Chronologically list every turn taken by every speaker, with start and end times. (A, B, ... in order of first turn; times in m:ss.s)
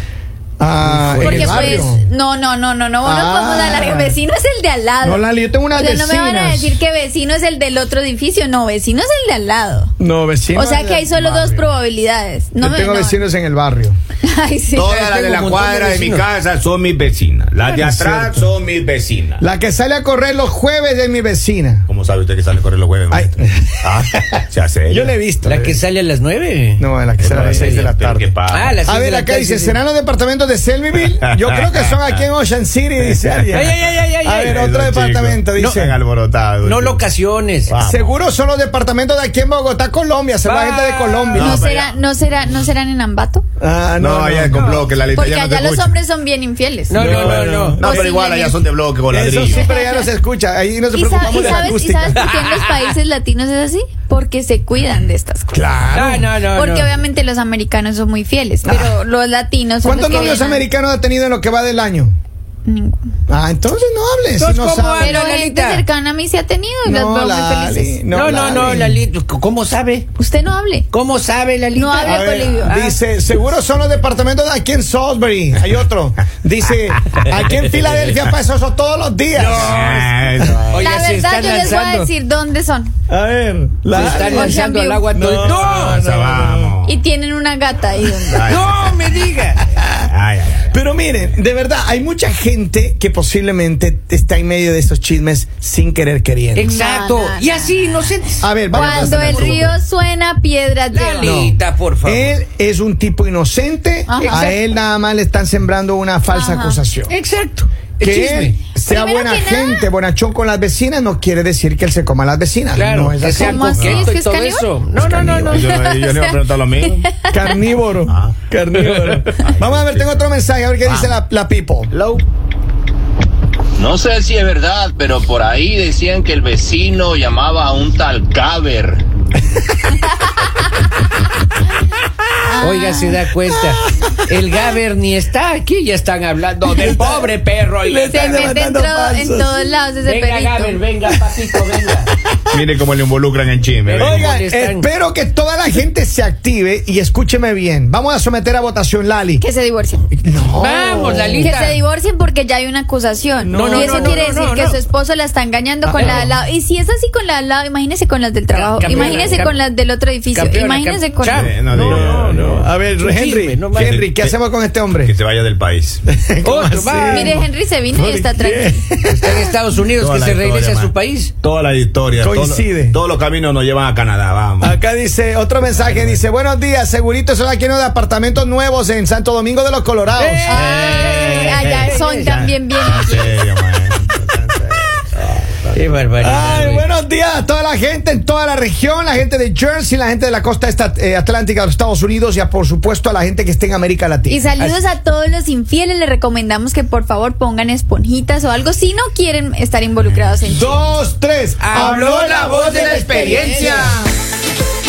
0:00.6-0:02.0 A
0:00.8-0:01.9 B
0:01.2-0:09.9 C
0:03.0-0:04.2 A
0:05.0-0:06.8 A
0:10.0-0:11.7 A
0:10.5-0:13.2 C
0:12.6-0:14.0 A
0:14.2-0:14.9 C
0:14.8-0:19.4 D
0:14.8-0:16.3 B
0:17.7-0:18.5 A
0:19.4-0:21.9 A
0:21.9-0:25.1 D
0:23.1-0:24.2 A
0:24.9-0:25.8 A
0:25.4-0:27.9 B
0:26.8-0:36.0 A
0:27.2-0:28.8 D
0:28.5-0:29.8 B
0:31.3-0:32.2 D
0:33.2-0:33.9 D
0:33.5-0:34.7 B
0:34.4-0:37.1 D
0:35.6-0:35.8 B
0:36.6-0:37.8 B
0:37.7-0:38.2 D
0:37.8-0:41.6 A
0:40.4-0:41.4 B
0:41.3-0:43.4 C
0:41.3-0:42.0 D
0:43.6-0:44.9 A
0:44.0-0:46.0 D
0:45.1-0:48.6 C
0:46.9-0:47.8 B
0:46.9-0:48.1 A
0:47.0-0:49.7 D
0:49.1-0:52.3 A
0:49.4-0:50.1 C
0:50.9-0:55.7 C
0:51.3-0:51.6 B
0:52.2-0:52.9 B
0:55.5-0:56.3 A
0:55.9-0:56.9 B
0:56.5-1:00.7 C
0:58.6-0:59.0 A
0:59.8-1:02.2 A
1:02.7-1:03.0 C
1:03.3-1:05.2 A
1:04.4-1:05.9 B
1:05.0-1:08.0 C
1:06.8-1:09.0 A
1:08.1-1:10.1 B
1:10.2-1:10.9 C
1:10.9-1:13.0 B
1:11.8-1:12.8 C
1:12.0-1:19.8 A
1:19.3-1:22.1 B
1:19.4-1:20.9 D
1:20.8-1:22.9 C
1:23.1-1:26.7 A
1:23.9-1:26.0 B
1:24.3-1:25.1 C
1:25.7-1:27.0 D
1:26.8-1:28.6 C
1:28.3-1:29.1 D
1:28.5-1:29.6 B
1:30.0-1:30.8 D
1:30.7-1:36.7 A
1:36.5-1:39.8 B
1:36.6-1:37.7 C
1:38.4-1:39.8 A
1:38.7-1:41.4 C
1:40.9-1:42.4 B
1:41.2-1:47.1 A
1:44.1-1:44.6 C
1:46.3-1:46.8 C
1:47.1-1:48.6 B
1:48.0-1:53.9 A
1:48.9-1:49.9 C
1:52.7-1:55.8 B
1:53.3-1:54.7 C
1:53.8-1:54.1 D
1:55.0-1:57.1 D
1:55.5-1:57.5 C
1:57.3-2:01.9 A
1:58.1-1:58.4 D
1:59.2-2:01.2 D
2:01.9-2:02.2 D
2:03.8-2:09.0 E
2:12.5-2:13.2 C
2:12.6-2:18.5 B
2:16.7-2:19.6 A
2:18.1-2:20.8 C
2:20.0-2:22.1 B
2:22.3-2:22.6 A
2:22.5-2:24.3 D
2:23.8-2:24.9 B
2:24.0-2:29.4 A
2:29.4-2:30.1 C
2:30.2-2:31.5 A
2:30.5-2:31.8 B
2:31.4-2:41.5 C
2:33.4-2:34.3 A
2:33.5-2:34.8 B
2:35.8-2:36.3 A
2:38.5-2:39.5 A
2:38.8-2:39.6 B
2:40.3-2:44.0 B
2:41.3-2:42.6 D
2:41.7-2:45.1 A
2:43.7-2:44.4 D
2:45.0-2:46.0 D
2:46.1-2:49.5 A
2:46.4-2:47.4 B
2:47.1-2:48.8 C
2:49.1-2:51.3 B
2:50.0-2:54.8 D
2:52.2-2:53.0 A
2:54.6-3:00.7 A
2:55.6-2:56.2 D
3:00.1-3:02.4 B
3:00.5-3:03.4 C
3:00.5-3:05.8 D
3:05.7-3:06.9 B
3:06.2-3:14.8 A
3:14.3-3:20.8 C
3:20.5-3:24.1 A
3:21.6-3:24.0 B